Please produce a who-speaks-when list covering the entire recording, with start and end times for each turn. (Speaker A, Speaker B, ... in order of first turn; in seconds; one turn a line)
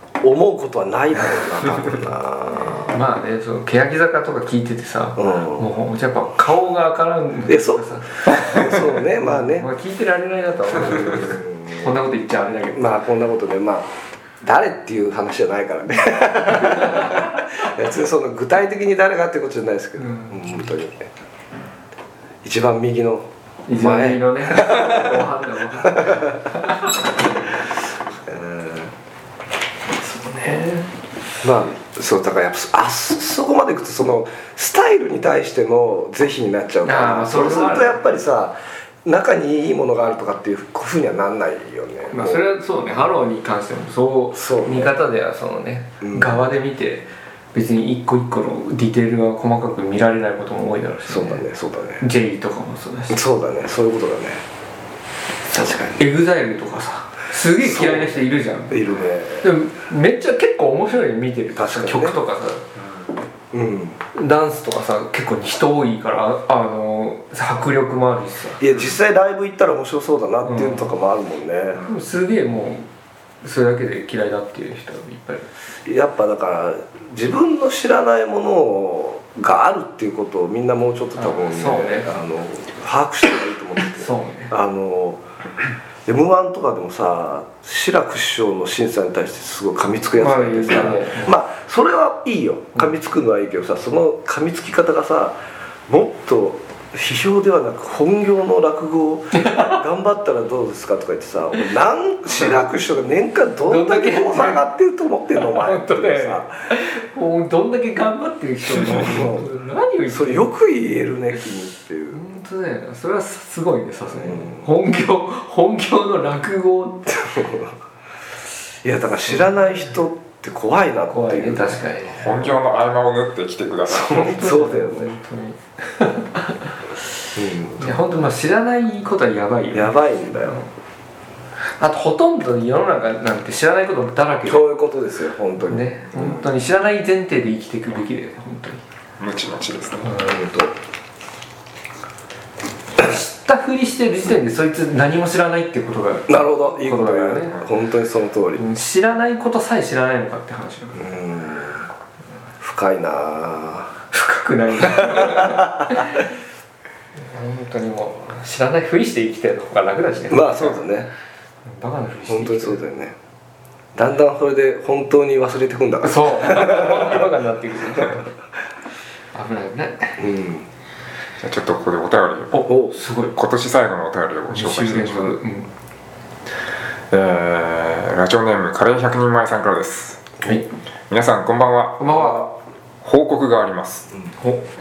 Speaker A: 0.2-2.9
Speaker B: 2.6-13.0
Speaker A: 5.2-5.7
Speaker A: 7.5-9.7
Speaker A: 10.8-11.9
Speaker A: 12.7-21.1
Speaker B: 20.0-20.5
Speaker A: 22.4-26.6
Speaker B: 23.7-27.0
Speaker A: 28.2-28.9
Speaker B: 29.9-30.9
Speaker A: 31.4-42.4
Speaker B: 36.8-38.0
Speaker B: 42.1-51.5
Speaker A: 44.3-45.0
Speaker A: 46.0-46.4
Speaker A: 51.1-52.0
Speaker B: 52.0-53.2
Speaker A: 53.1-54.5
Speaker A: 55.5-56.0
Speaker B: 56.0-58.9
Speaker A: 57.6-59.5
Speaker B: 59.4-62.6
Speaker A: 61.5-62.2
Speaker C: 62.8-63.1
Speaker A: 63.5-64.0
Speaker B: 64.1-68.6
Speaker A: 68.6-71.9
Speaker B: 70.5-70.9
Speaker B: 71.8-72.9
Speaker B: 73.4-75.5
Speaker A: 75.8-85.2
Speaker B: 81.2-82.1
Speaker B: 84.0-84.5
Speaker A: 86.1-106.7
Speaker B: 90.2-91.3
Speaker B: 99.4-99.8
Speaker B: 103.6-104.7
Speaker B: 105.4-110.5
Speaker A: 108.7-109.5
Speaker A: 110.1-112.2
Speaker B: 112.1-117.2
Speaker A: 114.1-114.7
Speaker A: 117.1-117.7
Speaker A: 118.8-122.3
Speaker B: 119.3-119.7
Speaker B: 121.1-122.3
Speaker C: 122.1-124.3
Speaker A: 123.9-125.1
Speaker B: 124.0-126.8
Speaker A: 127.4-128.0
Speaker B: 127.8-130.7
Speaker A: 129.7-130.6
Speaker B: 131.8-134.7
Speaker A: 134.5-136.5
Speaker B: 135.6-138.8
Speaker C: 139.2-140.1
Speaker B: 140.1-140.4
Speaker A: 140.1-140.8
Speaker B: 143.0-147.6
Speaker A: 146.3-148.7
Speaker B: 148.6-151.2
Speaker A: 150.9-151.9
Speaker A: 152.6-154.0
Speaker B: 154.1-156.3
Speaker A: 154.8-156.1
Speaker B: 157.2-160.8
Speaker A: 160.3-161.1
Speaker B: 161.7-162.8
Speaker A: 162.3-163.2
Speaker A: 163.9-167.3
Speaker B: 166.0-168.3
Speaker B: 169.3-170.2
Speaker A: 170.2-170.7
Speaker C: 171.4-172.7
Speaker B: 172.5-173.4
Speaker A: 172.6-172.9
Speaker C: 173.3-175.4
Speaker B: 174.5-175.7
Speaker C: 177.1-180.4
Speaker C: 181.1-182.4
Speaker B: 182.0-182.5
Speaker C: 183.0-184.1
Speaker B: 184.4-184.7